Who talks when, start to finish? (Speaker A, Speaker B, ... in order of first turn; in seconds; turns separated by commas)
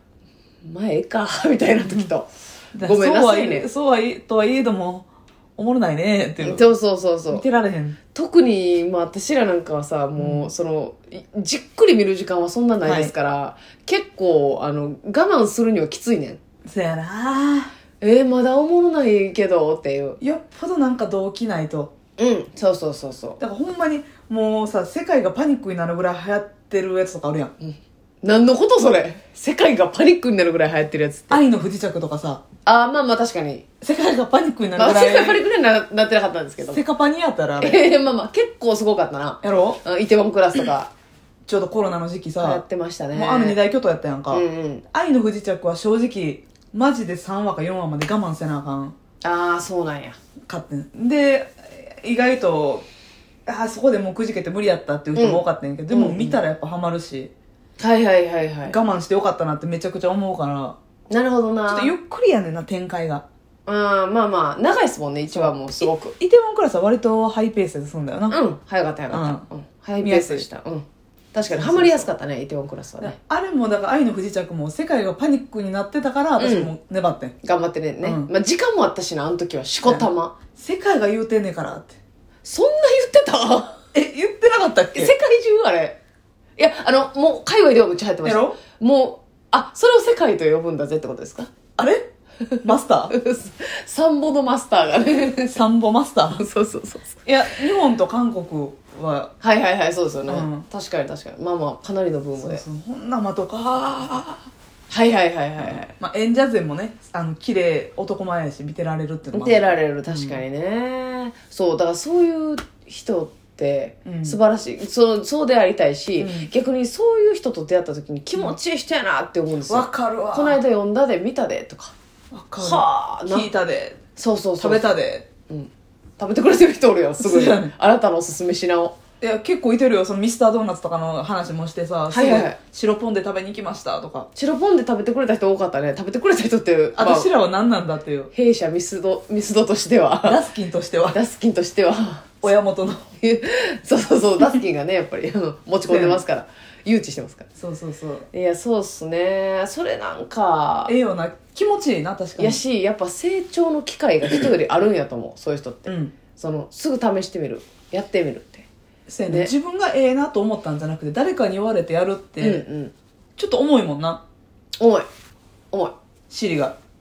Speaker A: 0.6-3.7, Speaker B: 2.7-6.7, Speaker A: 6.4-7.4, Speaker B: 7.3-8.0, Speaker A: 8.1-16.4, Speaker B: 10.2-10.5, Speaker B: 12.8-13.1, Speaker B: 16.6-17.7, Speaker A: 18.0-20.2, Speaker B: 20.2-21.9, Speaker A: 22.2-23.4, Speaker B: 23.4-27.5, Speaker A: 27.6-31.4, Speaker B: 31.3-32.4, Speaker A: 32.6-33.6, Speaker B: 33.8-35.4, Speaker A: 34.8-36.8, Speaker B: 36.7-37.9, Speaker A: 37.6-40.9, Speaker B: 39.4-39.8, Speaker B: 41.5-42.6, Speaker A: 42.4-43.6, Speaker B: 43.1-48.9, Speaker A: 44.3-44.8, Speaker A: 49.2-50.2, Speaker B: 50.5-52.9, Speaker B: 53.5-57.3, Speaker A: 55.1-56.4, Speaker A: 57.8-58.8, Speaker B: 58.6-60.8, Speaker A: 61.1-61.9, Speaker B: 61.7-63.2, Speaker A: 63.7-66.1, Speaker B: 65.3-68.4, Speaker A: 68.3-73.2, Speaker B: 69.1-69.4, Speaker B: 70.0-70.4, Speaker B: 71.5-72.1, Speaker B: 73.0-77.3, Speaker A: 76.4-76.7, Speaker A: 77.4-80.3, Speaker B: 78.0-78.3, Speaker B: 79.8-82.0, Speaker A: 82.4-83.8, Speaker B: 83.9-85.1, Speaker A: 84.9-86.0, Speaker A: 86.6-91.5, Speaker B: 88.2-88.6, Speaker B: 91.8-92.1, Speaker A: 92.4-95.6, Speaker B: 92.6-93.1, Speaker B: 95.5-96.4, Speaker A: 96.4-97.2, Speaker B: 97.2-99.3, Speaker A: 99.4-102.6, Speaker B: 100.3-100.7, Speaker B: 102.4-104.5, Speaker A: 104.9-105.9, Speaker B: 105.6-110.4, Speaker A: 109.3-121.9, Speaker B: 114.0-114.4, Speaker B: 116.2-116.5, Speaker B: 119.7-120.6, Speaker B: 122.3-124.0, Speaker A: 122.6-123.5, Speaker A: 124.2-124.9, Speaker B: 124.6-125.3, Speaker A: 125.5-128.9, Speaker B: 127.2-127.7, Speaker B: 129.2-134.3, Speaker A: 132.1-132.6, Speaker A: 134.3-137.3, Speaker B: 136.9-138.3, Speaker A: 138.3-140.4, Speaker B: 140.2-141.2, Speaker A: 141.1-142.4, Speaker B: 142.4-143.0, Speaker A: 143.2-147.5, Speaker B: 145.9-146.2, Speaker B: 147.6-148.3, Speaker A: 148.3-150.9, Speaker B: 150.9-152.6, Speaker A: 152.4-158.7, Speaker B: 155.9-156.1, Speaker B: 159.1-162.6, Speaker A: 162.4-162.9, Speaker B: 163.4-164.2, Speaker A: 164.8-165.1, Speaker B: 166.3-166.8